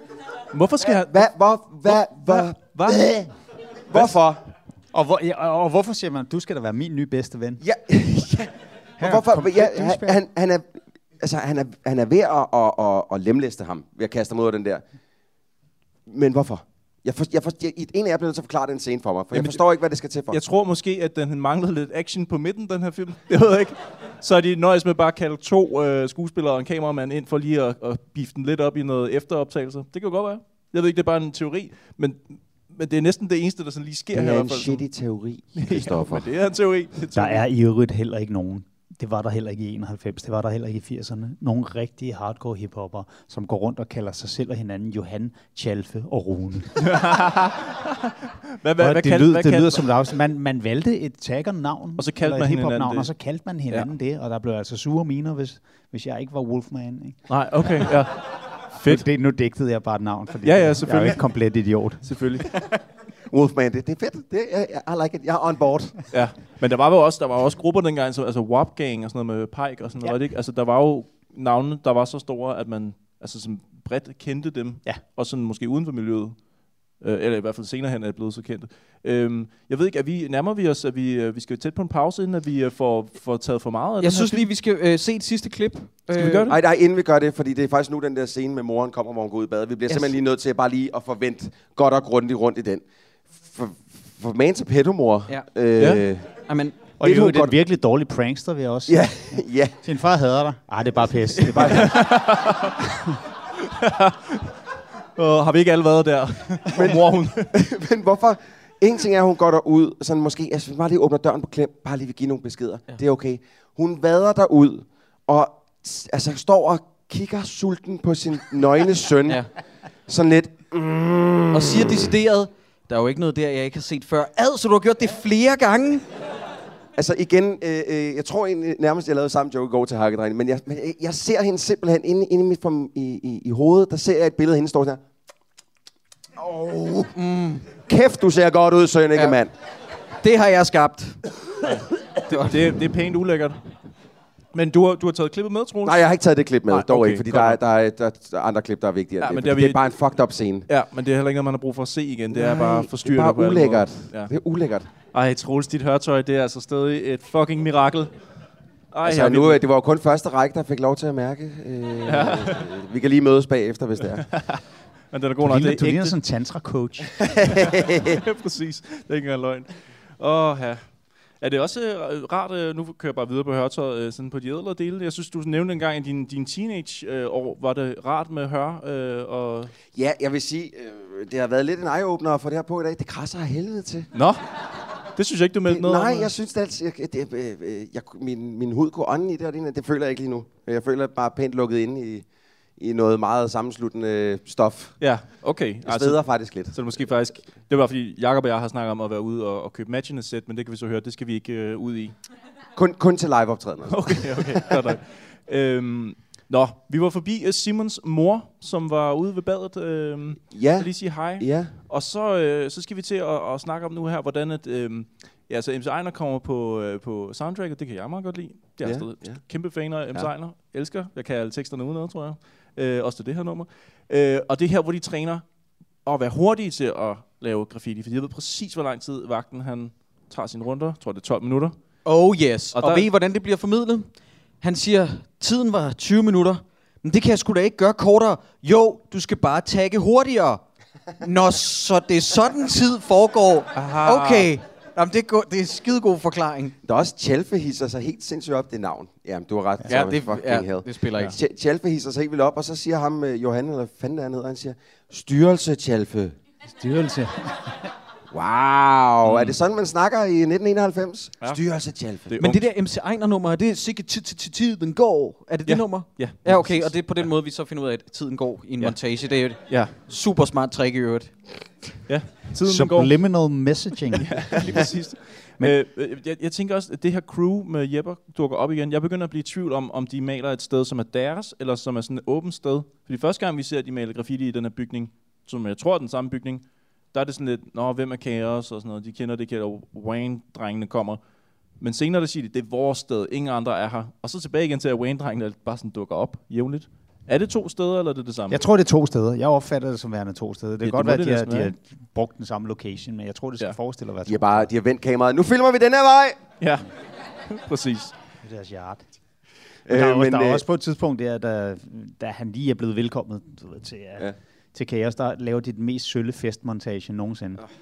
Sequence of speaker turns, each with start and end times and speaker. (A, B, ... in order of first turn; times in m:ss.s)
0:00.5-0:01.3 A
0:00.8-0:03.3 B
0:01.8-0:03.0 A
0:03.9-0:04.4 B
0:04.9-0:07.6 C
0:07.6-0:14.8 B
0:09.0-0:10.2 C
0:16.1-0:20.4 B
0:19.3-0:19.6 A
0:20.3-0:34.8 A
0:34.1-0:36.3 B
0:35.6-0:37.4 A
0:37.1-0:47.0 C
0:46.8-0:49.8 A
0:48.8-0:57.2 C
0:52.0-0:53.1 A
0:57.3-0:59.0 A
0:57.8-0:58.0 C
0:58.8-1:02.4 C
1:00.4-1:01.2 A
1:02.0-1:02.5 A
1:03.3-1:06.0 B
1:06.1-1:16.4 A
1:17.0-1:24.5 A
1:24.0-1:26.5 D
1:26.1-1:26.6 A
1:26.5-1:32.8 B
1:29.9-1:30.2 D
1:33.5-1:36.3 B
1:35.8-1:36.0 A
1:36.4-1:36.8 D
1:37.0-1:42.2 C
1:37.0-1:37.5 B
1:38.9-1:39.7 B
1:41.5-1:42.0 B
1:41.6-1:42.8 A
1:42.8-1:43.2 C
1:43.6-1:44.5 A
1:45.2-1:47.5 A
1:46.7-1:59.4 B
2:00.1-2:02.1 B
2:01.5-2:06.0 D
2:07.0-2:15.0 B
2:16.4-2:17.1 B
2:17.1-2:17.6 D
2:17.8-2:19.5 B
2:20.2-2:21.2 D
2:21.6-2:23.7 A
2:22.3-2:22.5 D
2:24.5-2:26.1 A
2:25.8-2:30.7 B
2:26.7-2:27.6 A
2:29.2-2:29.9 A
2:30.7-2:34.3 A
2:32.3-2:34.9 B
2:35.1-2:38.1 A
2:38.9-2:39.6 A
2:39.0-2:44.3 B
2:42.0-2:42.6 A
2:44.2-2:46.2 A
2:45.4-2:47.3 C
2:47.2-2:48.2 B
2:47.5-2:50.8 A
2:51.4-2:59.7 A
2:59.9-3:04.1 B
3:04.1-3:04.4 A
3:05.2-3:06.3 A
3:05.7-3:12.2 B
3:12.8-3:15.0 B
3:15.0-3:22.1 A
3:15.8-3:16.8 B
3:22.8-3:24.7 B
3:23.9-3:45.4 A
3:30.5-3:31.7 B
3:38.8-3:39.4 B
3:46.0-3:51.7 A
3:52.0-4:00.6 D
3:52.7-3:53.0 A
4:01.2-4:06.7 D
4:03.7-4:04.5 A
4:06.8-4:16.4 B
4:09.9-4:11.3 D
4:16.8-4:17.9 C
4:18.3-4:22.3 B
4:19.2-4:19.6 A
4:22.2-4:22.7 A
4:22.4-4:31.5 D
4:25.6-4:27.2 A
4:29.7-4:29.9 A
4:32.1-4:33.2 A
4:32.6-4:35.0 C
4:34.2-4:51.2 A
4:51.8-4:58.6 A
4:58.5-5:04.7 C
5:00.8-5:01.7 A
5:04.2-5:06.4 B
5:06.6-5:06.9 A
5:07.5-5:08.1 A
5:08.4-5:09.0 C
5:09.9-5:10.6 B
5:09.9-5:17.6 C